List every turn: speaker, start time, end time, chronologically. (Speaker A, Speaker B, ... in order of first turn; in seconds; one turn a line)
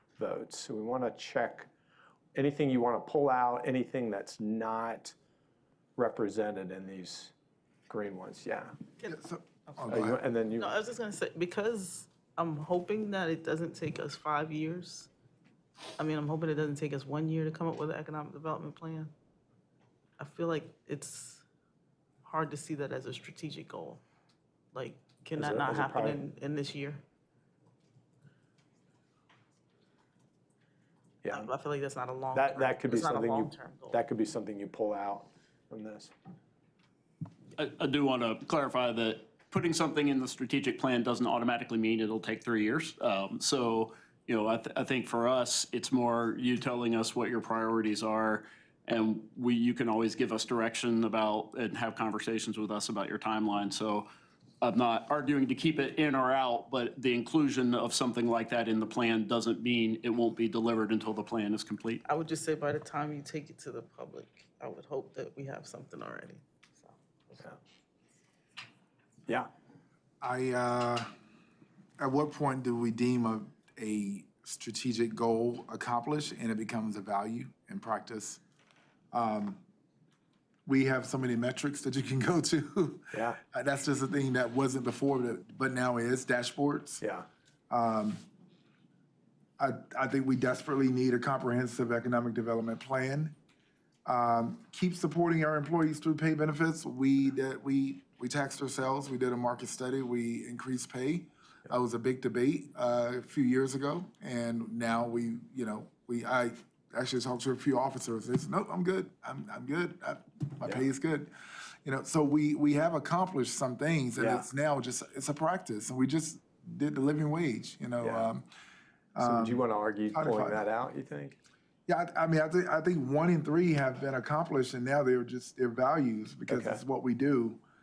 Speaker A: 0.2-1.7
Speaker A: 2.3-5.2
Speaker A: 6.0-7.3
Speaker A: 7.9-8.7
Speaker B: 9.1-10.2
Speaker A: 9.9-10.7
Speaker C: 10.6-15.1
Speaker C: 16.0-19.1
Speaker C: 20.2-21.4
Speaker C: 22.2-24.0
Speaker C: 24.7-27.0
Speaker A: 25.4-26.2
Speaker A: 31.2-31.5
Speaker C: 31.3-34.0
Speaker A: 32.3-36.1
Speaker D: 37.6-54.1
Speaker D: 54.6-62.0
Speaker C: 62.0-67.5
Speaker B: 70.2-71.1
Speaker B: 72.0-78.4
Speaker B: 79.1-79.6
Speaker B: 80.7-87.0
Speaker A: 83.1-83.4
Speaker A: 87.0-87.2
Speaker B: 87.7-88.2
Speaker B: 89.6-93.4
Speaker B: 94.1-111.3
Speaker B: 111.8-118.5
Speaker A: 114.2-114.5
Speaker A: 118.0-118.3
Speaker B: 119.1-119.6
Speaker A: 119.2-121.4
Speaker B: 120.1-120.6
Speaker B: 121.9-127.6
Speaker A: 126.5-126.8